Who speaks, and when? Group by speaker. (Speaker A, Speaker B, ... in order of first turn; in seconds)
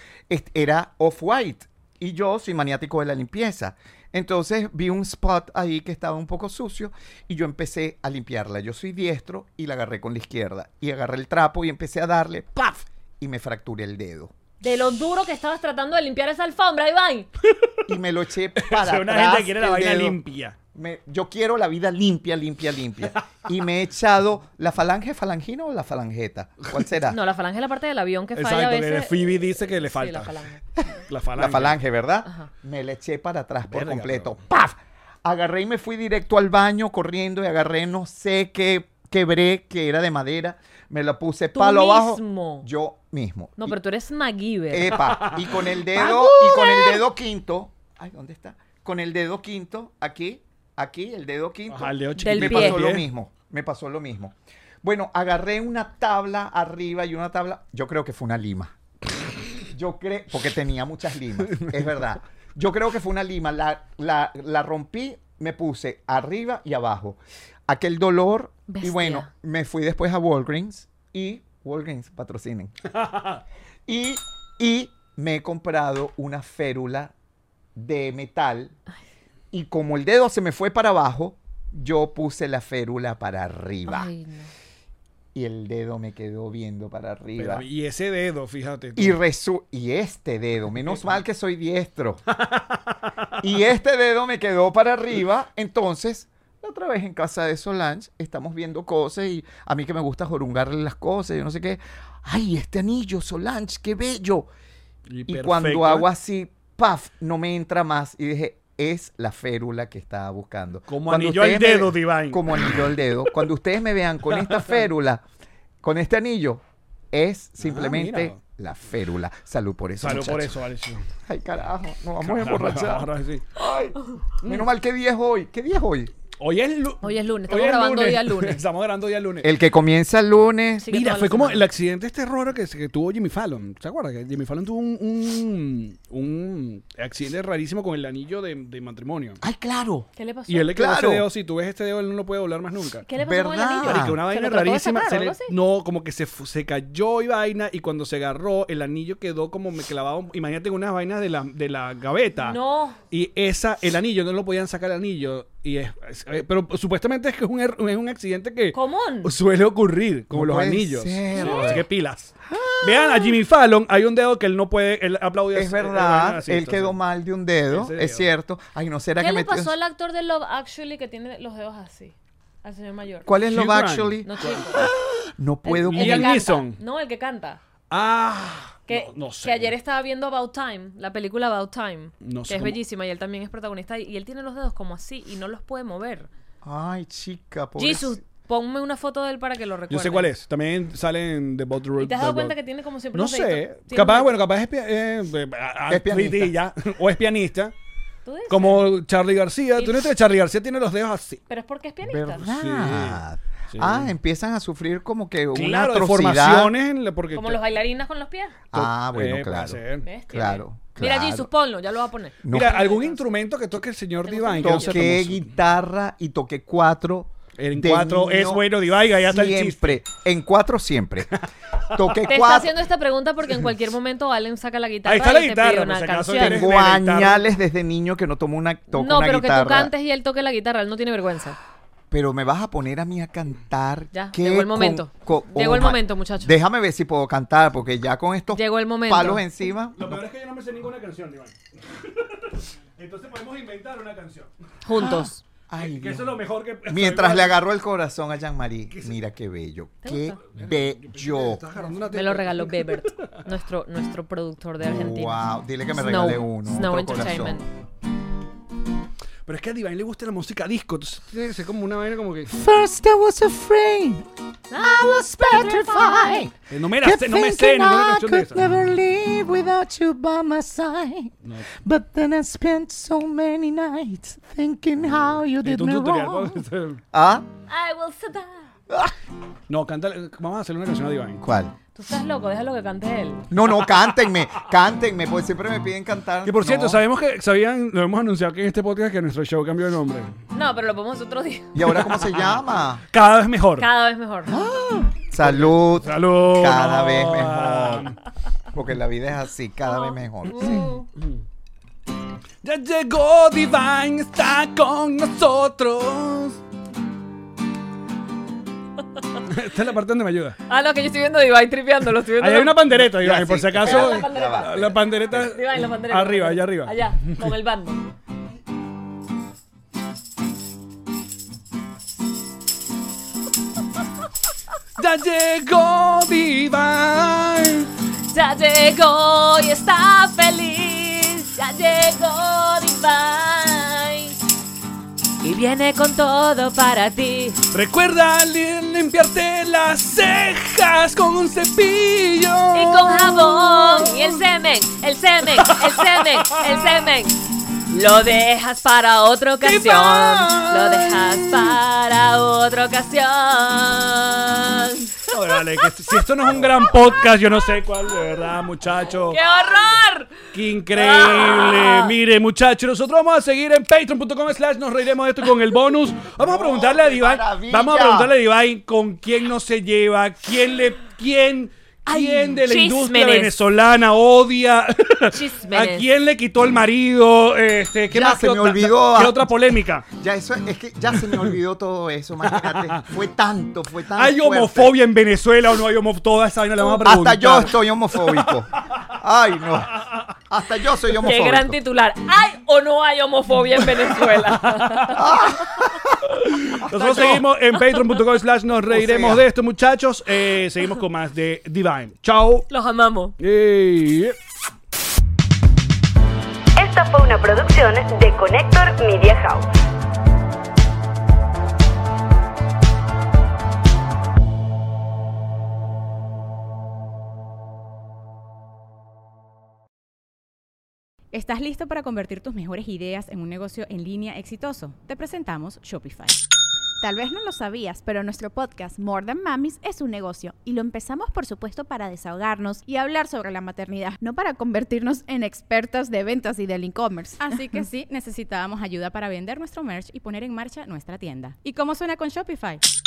Speaker A: 0.3-14.3, 17.9-20.2, 20.7-27.2, 31.3-43.8, 44.7-58.7, 59.7-72.8, 73.9-77.1, 77.7-78.8, 79.5-84.1, 85.3-87.7, 89.0-92.2, 93.4-104.5, 105.3-115.2, 115.8-120.6, 121.3-126.1, 129.4-130.9, 139.4-140.1, 140.7-141.3, 143.2-144.2, 160.3-161.8, 162.5-163.4, 165.5-169.7, 173.2-176.4, 186.6-188.2, 195.9-196.6, 202.0-206.7, 208.7-211.5, 212.4-212.9, 214.6-218.6, 219.2-221.3, 221.9-222.7, 226.3-229.9, 232.1-240.2, 245.0-251.6, 254.8-257.6, 262.5-277.4, 278.9-279.1, 281.4-281.7, 283.5-287.0, 291.7-293.0, 294.5-298.1, 298.7-300.9, 313.0-315.4, 366.4-368.3, 378.1-384.9, 386.8-391.8, 395.1-396.1, 396.9-397.4, 398.9-399.4
Speaker B: 14.6-17.3, 27.1-30.6, 41.5-42.7, 43.6-45.0, 52.2-52.8, 68.7-69.3, 83.9-84.5, 127.0-128.6, 130.8-131.7, 140.2-140.8, 143.1-145.5, 152.4-153.0, 158.7-159.3, 161.3-161.8, 169.2-173.3, 174.2-174.9, 175.7-177.6, 178.9-186.3, 187.8-190.3, 192.0-194.3, 198.2-198.9, 199.8-200.1, 201.5-202.5, 207.3-208.6, 210.1-213.3, 214.2-215.0, 222.2-226.7, 228.9-231.6, 234.1-236.6, 238.6-239.4, 244.8-245.4, 250.0-250.4, 252.0-257.7, 264.7-266.5, 277.7-278.6, 281.9-283.5, 290.5-291.8, 293.8-294.6, 299.9-301.1, 310.7-312.8, 313.8-318.1, 328.3-334.4, 335.4-337.6, 342.7-355.3, 356.4-357.1, 359.2-362.1, 372.1-373.5, 375.3-376.1, 391.2-395.2, 396.9-398.2, 402.7-403.3
Speaker C: 18.6-20.6, 28.3-30.4, 31.1-31.8, 33.7-34.3, 45.0-46.8, 51.7-53.0, 61.5-61.7, 73.0-73.4, 87.4-89.2, 92.3-93.4, 105.1-106.1, 110.9-112.8, 114.3-114.7, 117.6-118.4, 120.0-121.0, 122.2-123.4, 126.4-129.5, 130.9-139.4, 140.5-143.1, 143.8-152.6, 153.1-167.0, 167.7-168.2, 173.4-174.9, 175.8-176.8, 177.9-179.7, 182.2-182.8, 189.9-192.6, 193.1-197.7, 198.5-201.4, 202.5-204.1, 205.5-207.6, 208.7-210.1, 212.5-215.5, 217.6-220.0, 225.1-227.4, 239.9-245.1, 245.8-247.6, 250.5-253.4, 259.4-262.6, 266.7-268.6, 275.6-277.0, 279.7-281.4, 286.4-290.3, 291.9-292.6, 293.1-293.9, 295.4-298.2, 302.6-306.6, 309.4-310.6, 312.4-317.4, 325.0-327.9, 337.7-344.4, 345.4-346.8, 349.6-351.8, 355.3-359.4, 360.5-380.1, 381.2-381.5, 382.4-383.1, 384.1-389.1, 394.6-395.2, 396.2-402.7, 403.4-404.4
Speaker D: 406.8-409.7
Speaker E: 421.3-426.4, 437.4-442.8
Speaker F: 427.0-437.6